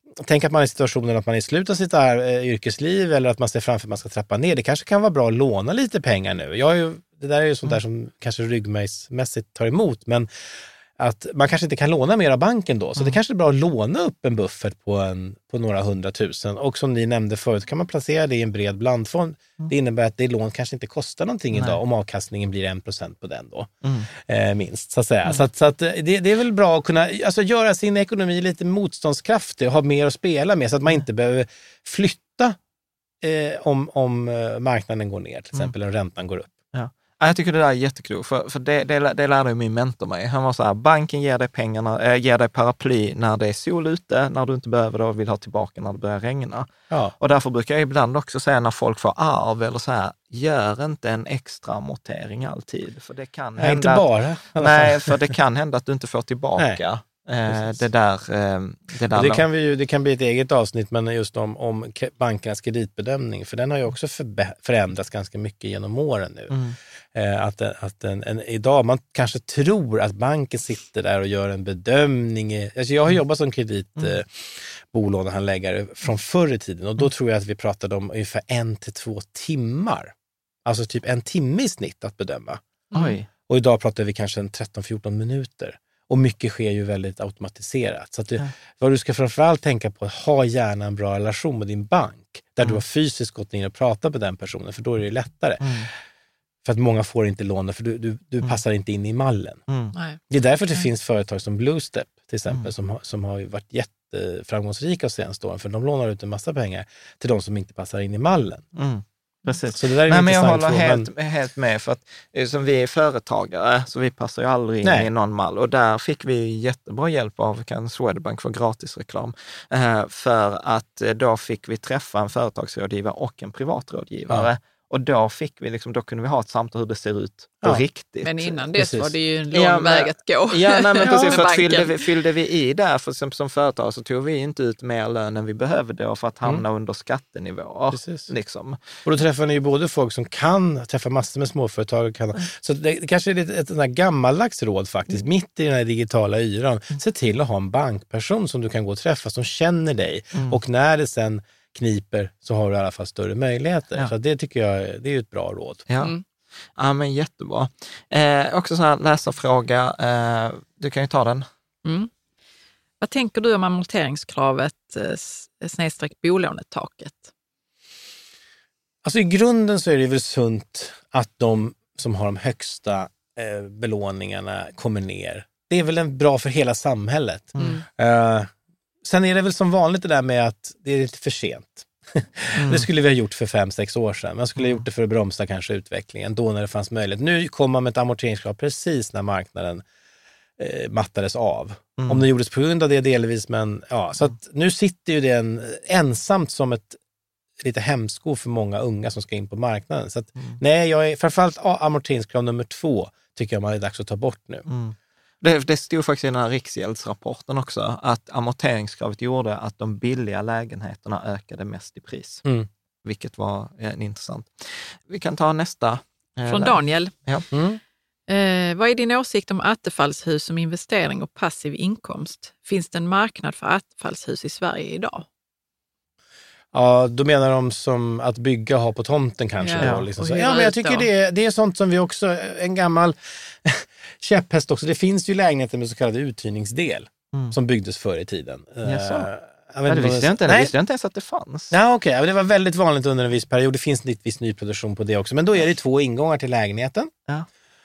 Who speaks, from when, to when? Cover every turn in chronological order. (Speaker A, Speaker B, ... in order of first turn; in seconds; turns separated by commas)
Speaker A: 0.2-10.3, Speaker A: 11.0-32.6, Speaker B: 21.5-21.8, Speaker A: 33.2-36.5, Speaker B: 36.7-59.5, Speaker A: 46.9-47.1, Speaker A: 53.6-55.3, Speaker A: 57.5-57.8, Speaker A: 59.1-66.6, Speaker B: 66.5-66.8, Speaker A: 67.1-80.1, Speaker A: 80.6-82.6, Speaker C: 82.9-83.2, Speaker B: 82.9-83.3, Speaker A: 83.5-95.9, Speaker B: 95.6-95.9, Speaker A: 96.6-99.6, Speaker B: 99.7-99.9, Speaker C: 99.9-100.2, Speaker A: 100.3-108.7, Speaker B: 108.7-128.6, Speaker A: 109.7-111.1, Speaker A: 114.8-115.1, Speaker C: 128.2-132.0, Speaker A: 128.7-129.1, Speaker B: 129.5-138.9, Speaker A: 131.0-131.4, Speaker A: 137.9-138.3, Speaker A: 139.0-155.8, Speaker B: 150.3-150.6, Speaker B: 155.9-156.1, Speaker B: 156.7-161.5, Speaker C: 161.8-162.1, Speaker C: 163.0-167.3, Speaker A: 169.0-178.5, Speaker B: 177.6-177.8, Speaker C: 177.6-177.8, Speaker A: 179.0-189.8, Speaker B: 182.5-182.9, Speaker B: 184.6-184.8, Speaker A: 190.6-197.0, Speaker B: 192.0-192.3, Speaker A: 197.6-204.7, Speaker B: 204.7-212.4, Speaker B: 213.0-217.5, Speaker C: 216.5-217.1, Speaker A: 217.5-217.8, Speaker C: 218.3-225.2, Speaker A: 226.7-240.7, Speaker C: 229.6-231.1, Speaker B: 229.8-230.1, Speaker B: 238.8-239.3, Speaker B: 239.9-241.7, Speaker A: 241.7-247.1